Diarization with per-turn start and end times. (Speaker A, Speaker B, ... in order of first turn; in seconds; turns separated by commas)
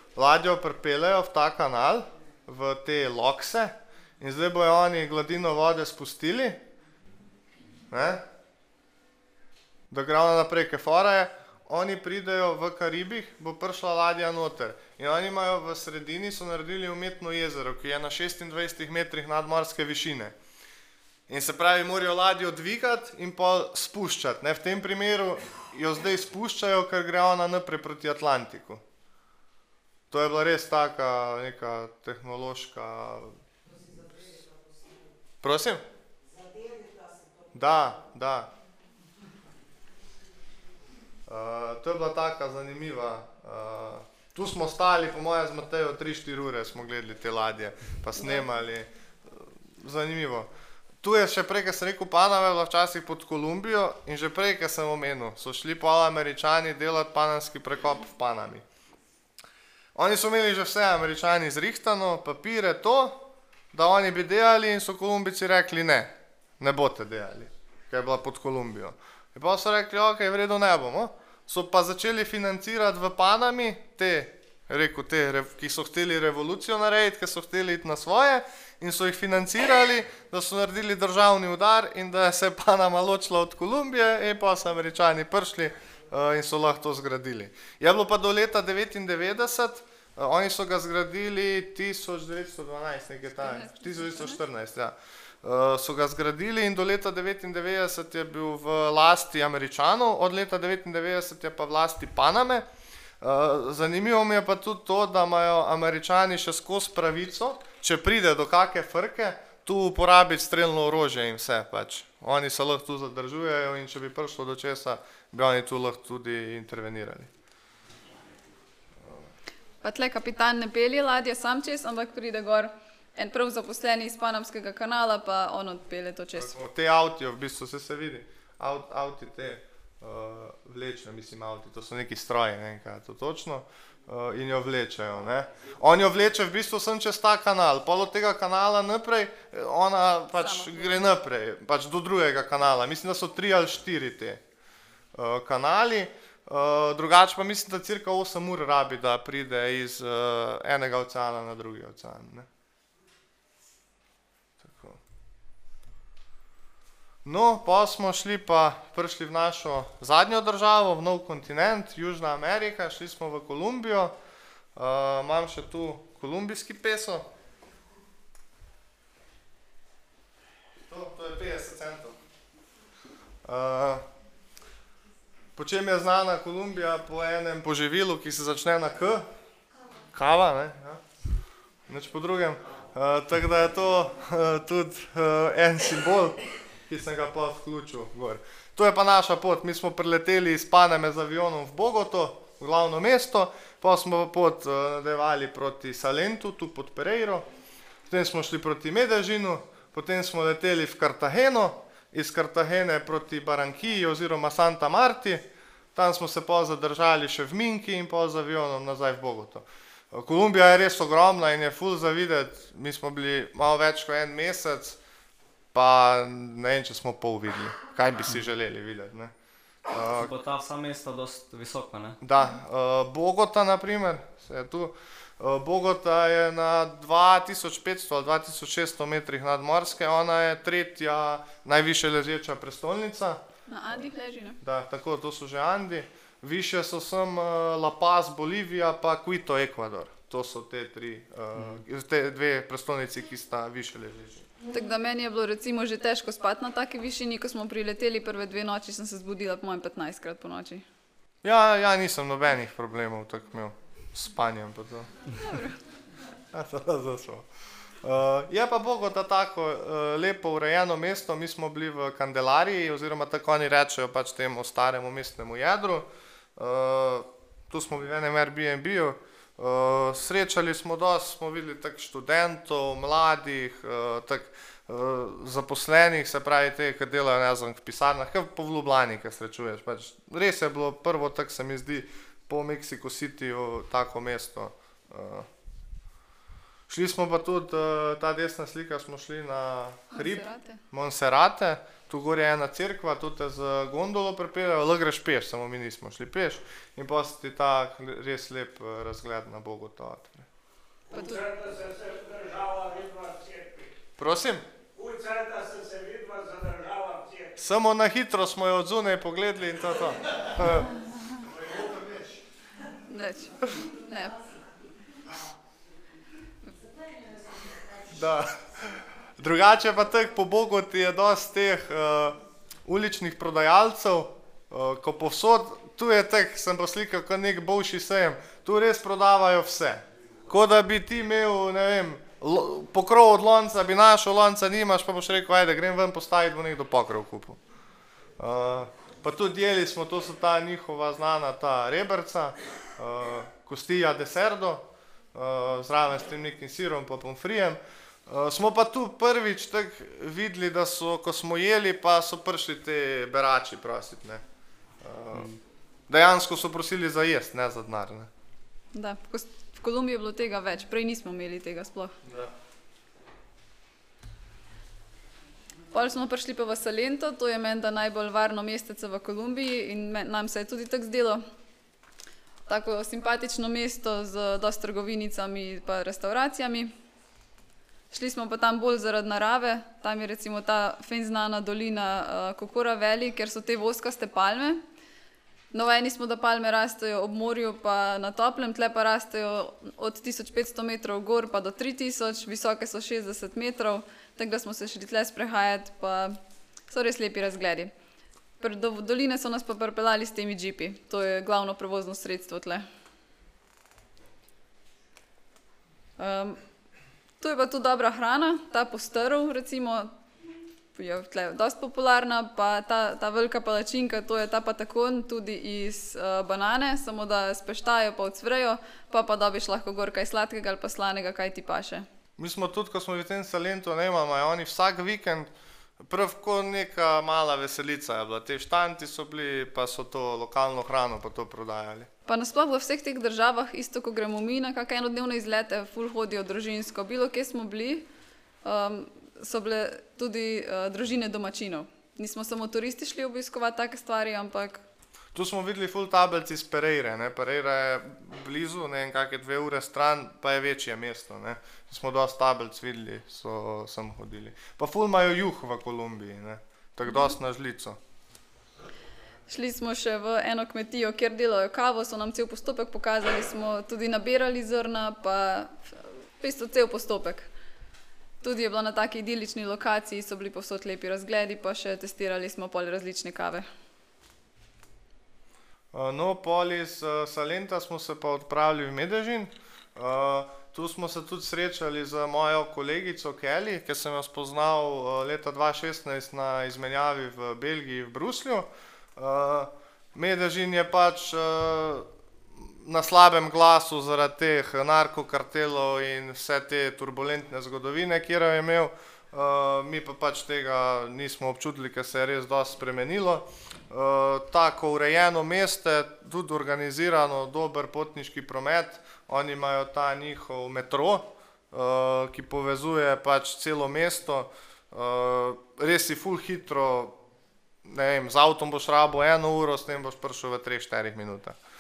Speaker A: 0.1-6.6, Speaker A: 7.9-8.2, Speaker A: 9.9-20.4, Speaker A: 21.3-28.8, Speaker A: 30.1-33.4, Speaker A: 35.4-35.8, Speaker A: 37.5-38.5, Speaker A: 41.3-50.5, Speaker A: 51.0-58.6, Speaker A: 60.0-102.7, Speaker B: 93.4-94.4, Speaker A: 103.2-117.3, Speaker A: 119.0-119.3, Speaker B: 119.8-126.6, Speaker A: 126.4-144.4, Speaker B: 140.4-141.0, Speaker A: 145.1-152.5, Speaker A: 154.6-155.0, Speaker A: 157.2-164.1, Speaker A: 164.8-167.3, Speaker A: 170.9-172.2, Speaker A: 173.4-174.0, Speaker A: 175.6-179.3, Speaker A: 180.1-181.0, Speaker A: 181.9-197.5, Speaker A: 198.1-205.4, Speaker A: 205.9-215.0, Speaker A: 215.7-219.3, Speaker A: 219.9-220.3, Speaker C: 220.2-222.2, Speaker A: 222.2-233.4, Speaker B: 233.7-234.6, Speaker A: 234.6-244.5, Speaker B: 244.7-250.8, Speaker A: 251.4-255.1, Speaker B: 255.4-255.8, Speaker A: 256.5-257.5, Speaker A: 258.0-285.5, Speaker A: 286.9-300.5, Speaker B: 290.1-290.8, Speaker D: 301.1-303.9, Speaker B: 301.1-301.5, Speaker A: 304.2-304.6, Speaker D: 304.9-307.6, Speaker A: 307.6-310.9, Speaker D: 311.4-312.4, Speaker B: 313.1-314.4, Speaker A: 317.9-337.6, Speaker A: 338.4-354.4, Speaker A: 355.0-355.5, Speaker A: 356.1-358.3, Speaker B: 358.9-362.1, Speaker A: 362.2-362.5, Speaker B: 365.9-371.4, Speaker B: 372.7-376.9, Speaker B: 378.1-384.8, Speaker B: 385.7-396.4, Speaker B: 396.9-397.9, Speaker B: 398.6-402.9, Speaker B: 406.2-406.6, Speaker B: 407.4-410.1, Speaker B: 410.9-422.1, Speaker A: 422.4-425.5, Speaker A: 426.0-432.1, Speaker B: 432.3-438.1, Speaker B: 438.6-444.8, Speaker A: 445.3-458.0, Speaker B: 459.5-467.5, Speaker B: 468.4-473.7, Speaker A: 475.9-492.1, Speaker A: 492.6-517.2, Speaker A: 517.9-521.6